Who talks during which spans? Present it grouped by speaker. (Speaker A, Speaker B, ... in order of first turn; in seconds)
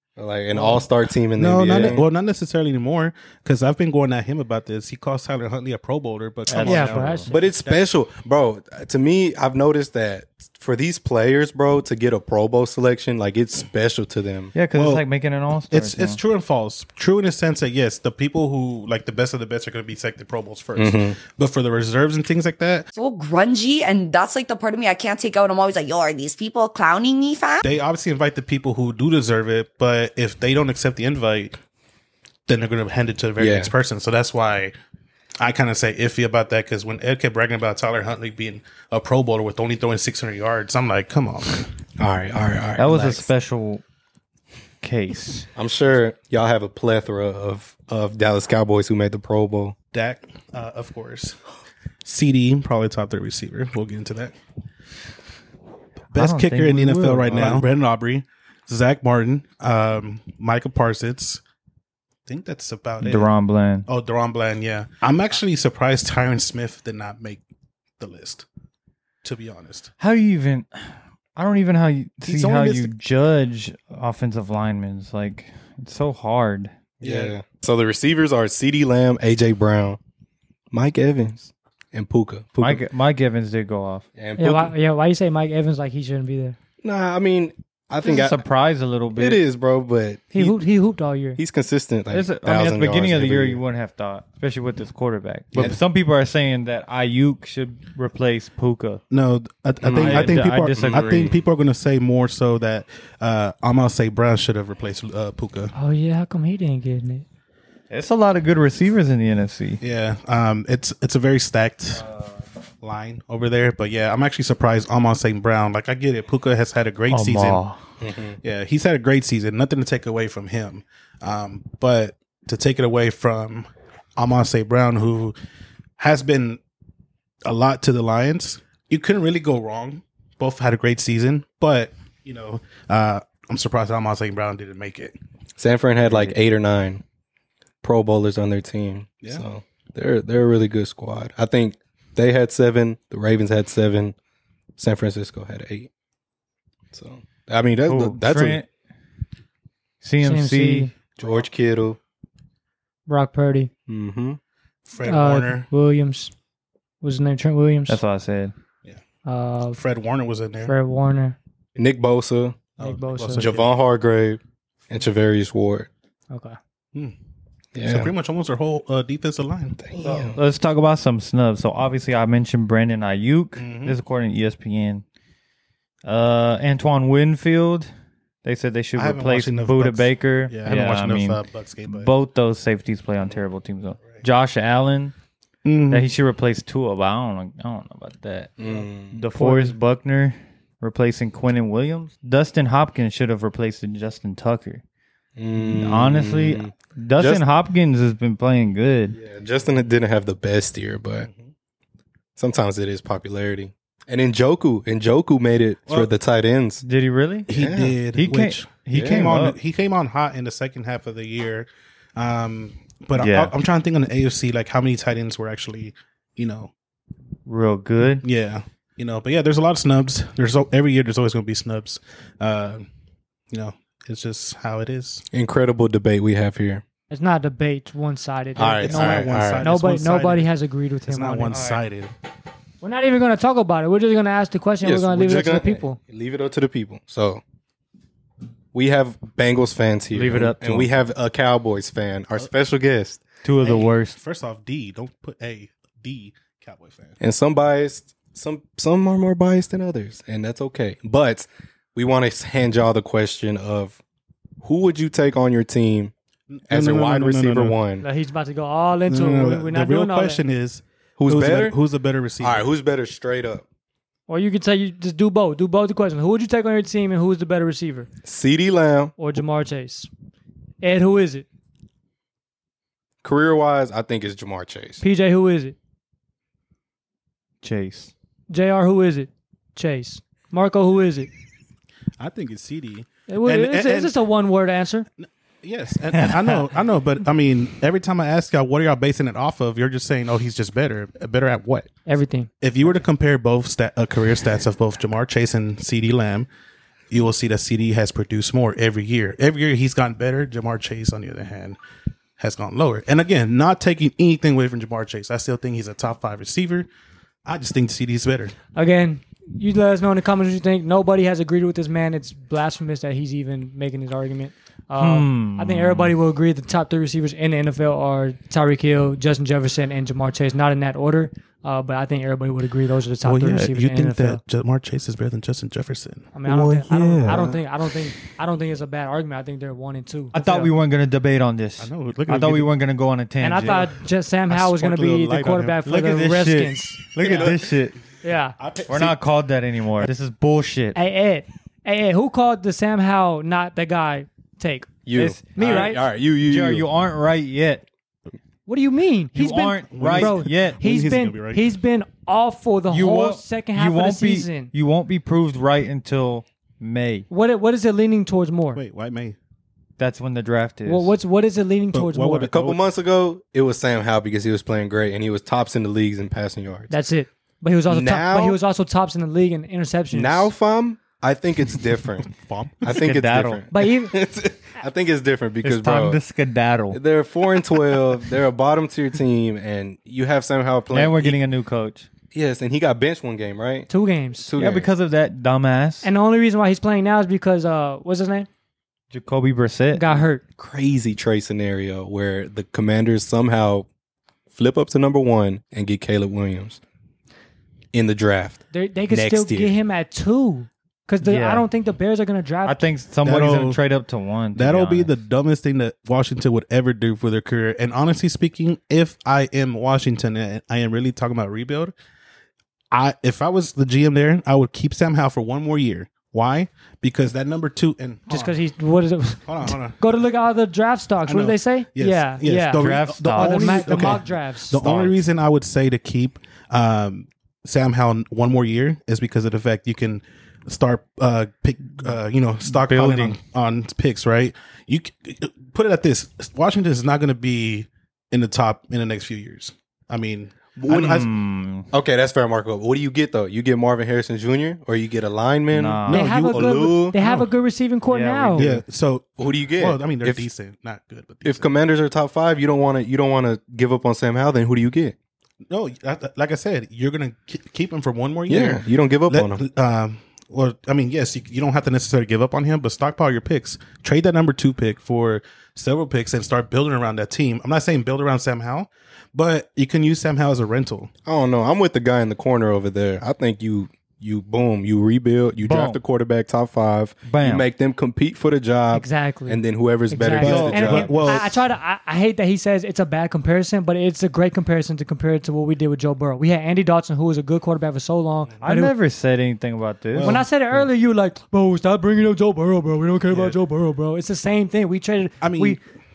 Speaker A: 0.2-2.1, 7.3-14.5, 20.8-21.1, 33.4-33.7, 42.0-43.3, 45.5-49.7, 77.0-80.0, 80.7-82.8, 84.2-84.7, 86.8-88.4, 89.1-90.6, 91.4-93.6, 99.8-101.3, 118.0-118.4, 135.6-137.0, 137.8-144.1, 144.8-145.9, 146.9-148.6, 151.2-152.0, 153.9-154.4, 161.8-162.6, 163.3-165.9, 167.7-168.1, 169.8-170.4, 188.6-189.2, 195.3-197.4, 199.1-201.3, 202.3-206.8, 207.5-208.0, 208.9-209.3, 225.3-226.8, 228.6-229.7, 234.8-237.4, 238.7-243.2, 247.2-254.0, 254.6-256.1, 256.7-258.0, 261.2-261.8, 262.4-263.6, 268.2-269.1, 273.2-275.0, 326.5-327.6, 345.1-346.9, 362.4-366.9, 367.9-368.6, 370.1-372.3, 372.8-376.2, 376.9-381.4, 382.3-383.9, 384.4-384.9, 390.6-393.9, 394.5-396.8, 397.9-399.8, 441.9-447.1, 449.4-450.5, 451.4-455.1, 458.5-459.6, 471.2-481.3
Speaker B: 1.4-7.8, 14.7-15.0, 15.7-22.9, 27.6-31.6, 32.5-34.7, 35.4-41.7, 49.9-51.4, 52.0-54.3, 56.1-61.4, 62.3-63.3, 63.9-67.4, 68.0-68.4, 69.2-69.9, 72.2-72.9, 99.1-105.7, 109.8-112.1, 112.8-117.6, 118.4-125.3, 126.0-126.6, 127.4-135.2, 154.9-155.7, 159.7-160.7, 162.8-163.7, 167.8-169.8, 173.6-174.0, 178.9-182.1, 185.6-186.1, 207.5-216.7, 218.2-222.8, 223.5-225.2, 228.7-230.5, 231.1-232.1, 243.6-247.2, 256.5-257.8, 259.1-262.6, 282.2-284.1, 285.2-291.9, 292.6-296.5, 297.1-301.8, 302.4-306.9, 307.4-308.5, 323.2-326.3, 331.8-332.7, 334.5-336.1, 337.1-337.7, 338.6-339.2, 345.6-345.9, 349.9-351.6, 358.7-359.4, 361.9-362.8, 372.3-372.8, 403.2-403.8, 404.6-411.9, 412.9-418.6, 419.4-420.0, 421.3-441.3, 446.1-447.5, 448.6-451.7, 455.7-471.1, 480.4-481.6, 490.1-490.9, 493.3-493.6, 495.4-495.8
Speaker C: 6.5-7.3, 14.5-16.2, 42.8-43.8, 44.8-45.5, 56.1-57.7, 63.0-63.9, 70.0-77.3, 82.6-84.0, 88.0-89.4, 92.1-99.0, 99.9-101.3, 107.9-109.8, 117.1-117.8, 136.0-136.3, 147.8-148.7, 150.0-150.9, 157.9-158.5, 170.1-175.0, 176.0-177.9, 178.4-185.1, 185.9-188.5, 189.1-194.8, 195.6-199.2, 206.8-207.5, 208.1-209.6, 213.2-213.5, 217.4-218.2, 231.5-231.8, 240.1-240.9, 243.4-244.2, 277.6-278.1, 286.1-286.6, 315.0-316.1, 326.9-327.3, 330.3-333.9, 335.9-338.0, 338.9-341.0, 345.1-345.8, 346.4-347.8, 349.3-350.8, 352.9-357.3, 360.0-361.1, 372.9-373.7, 375.6-377.0, 380.9-382.1, 384.6-386.1, 389.1-390.0, 401.2-401.6, 402.6-405.1, 422.8-424.2, 424.8-425.1, 432.7-433.4, 440.9-441.9, 445.7-446.2, 448.1-448.8, 475.6-476.0, 477.2-477.6, 480.4-481.3, 488.6-490.4
Speaker D: 6.6-7.5, 84.4-86.6, 90.3-91.4, 105.7-107.2, 150.2-150.9, 153.1-153.7, 155.0-156.3, 157.0-158.0, 159.2-159.8, 160.6-161.4, 162.8-163.5, 166.3-166.6, 189.4-189.7, 227.1-231.8, 232.8-236.0, 258.0-260.4, 264.3-268.1, 269.2-270.1, 270.8-271.4, 275.0-275.8, 278.5-281.3, 283.3-285.1, 292.1-292.5, 308.7-324.4, 326.3-330.7, 333.4-337.1, 338.2-338.6, 340.9-344.9, 345.5-346.0, 348.7-354.7, 357.3-358.8, 360.9-362.6, 366.9-370.5, 373.7-374.2, 383.9-384.5, 386.0-388.5, 389.9-390.4, 398.7-402.8, 418.3-424.9, 446.1-448.7, 478.9-488.9, 490.2-495.8
Speaker E: 22.9-27.6